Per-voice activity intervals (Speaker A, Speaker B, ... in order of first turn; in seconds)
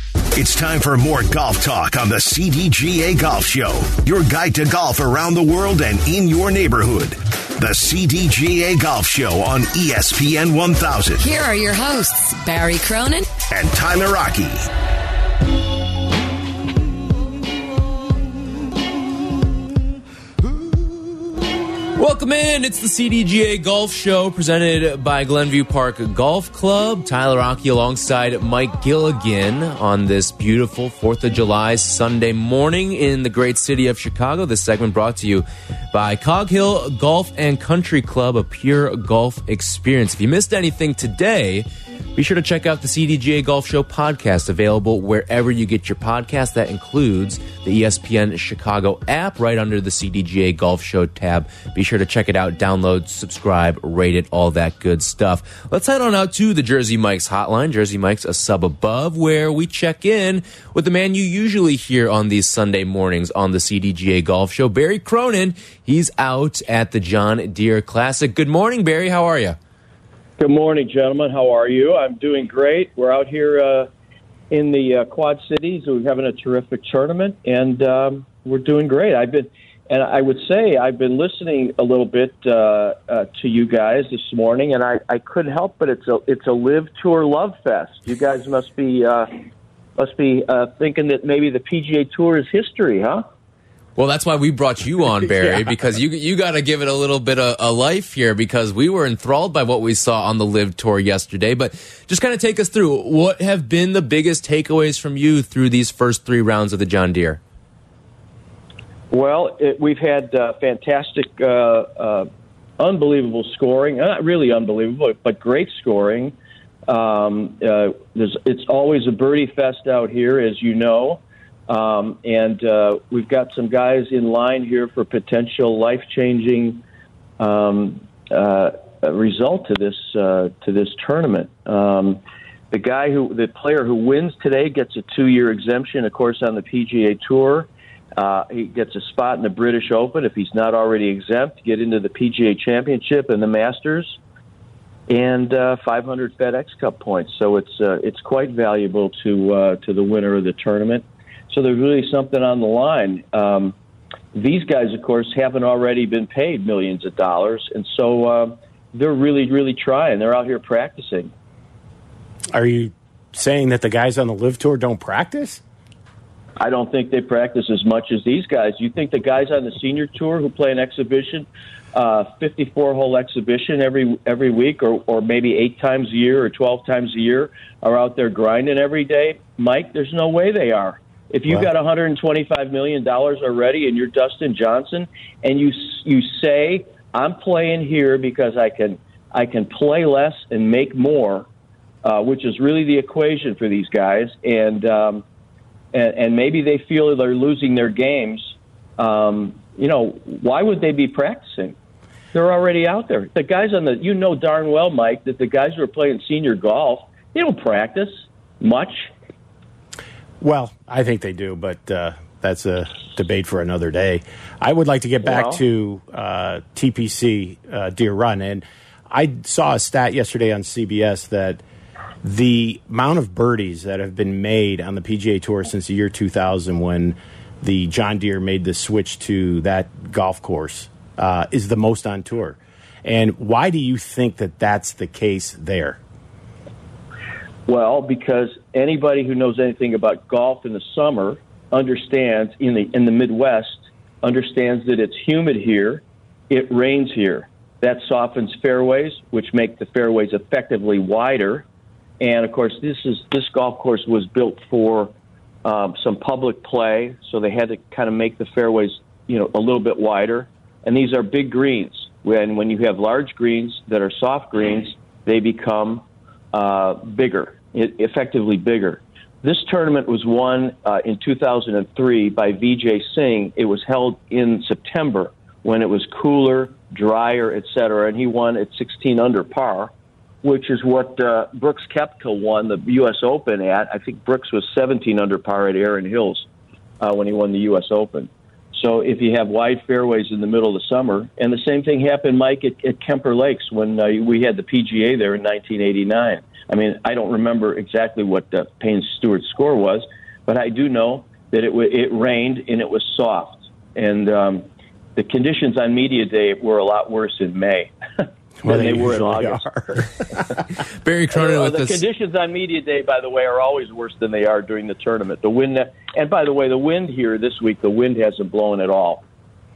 Speaker A: 0.3-11.3, 13.5-14.7
Speaker B: 11.2-13.3
Speaker C: 21.9-69.6, 94.0-107.4, 311.0-312.0
Speaker D: 70.4-73.9, 74.5-89.5, 90.0-93.2, 109.1-112.3, 112.8-116.3, 116.9-126.8, 127.4-144.2, 145.1-153.7, 154.3-161.3, 166.6-191.5, 192.0-195.2, 195.9-201.7, 202.3-209.1, 215.2-215.6, 237.7-251.7, 252.2-255.1, 255.6-279.9, 280.4-286.4, 287.0-310.2, 311.3-319.2
Speaker E: 162.5-165.6, 210.4-221.6, 222.2-236.0, 308.6-310.0